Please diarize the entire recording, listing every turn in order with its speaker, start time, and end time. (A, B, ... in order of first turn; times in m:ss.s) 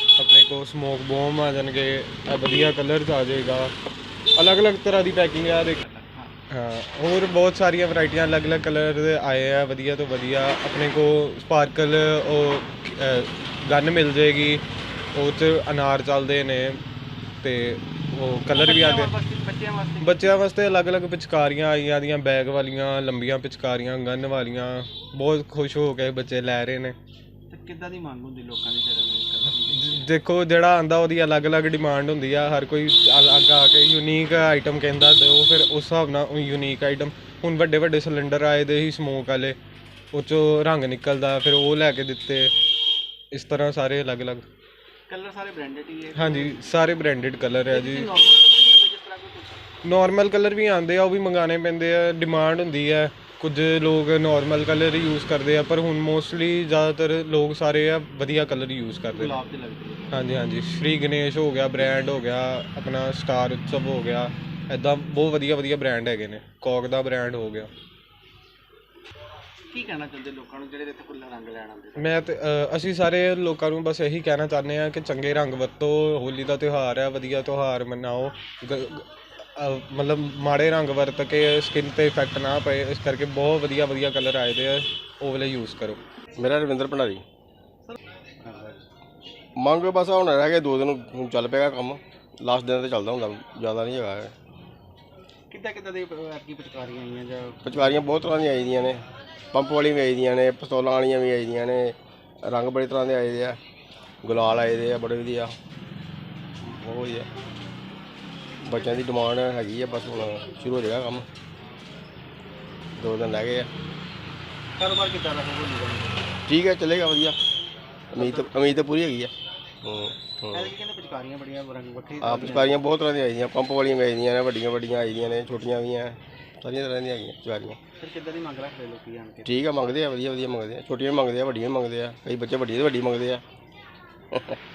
0:00.2-0:03.7 A
0:04.4-0:05.8 A
0:05.6-0:06.3 B
0:06.5-0:14.6 A
0:15.1-0:16.8 A
0:17.4-0:19.1 A
0:18.5-0:20.4 B
0:20.0-0:27.0 A
0:27.5-0:30.1 B
0:29.7-0:39.6 A
0:40.1-0:42.5 A
0:43.3-0:44.4 A
0:45.1-0:46.6 B
0:46.1-0:48.1 A
0:47.7-0:49.6 B
0:49.8-0:59.4 A
0:59.1-1:00.4 B
1:00.1-1:07.7 A
1:09.7-1:12.3 B
1:12.0-1:26.0 A
1:26.4-1:27.2 C
1:27.8-1:28.8 B
1:29.6-1:34.3 C
1:35.5-1:38.1 B
1:37.6-1:43.6 C
1:44.2-1:45.5 C
1:46.7-1:47.3 C
1:48.6-1:51.3 C
1:53.0-1:53.7 C
1:54.8-1:56.2 B
1:56.5-1:57.4 C
1:58.1-1:58.8 B
1:58.1-1:59.3 C
1:59.8-2:00.7 C
2:00.5-2:02.8 B
2:02.2-2:07.8 C
2:08.0-2:09.5 B
2:09.4-2:13.4 C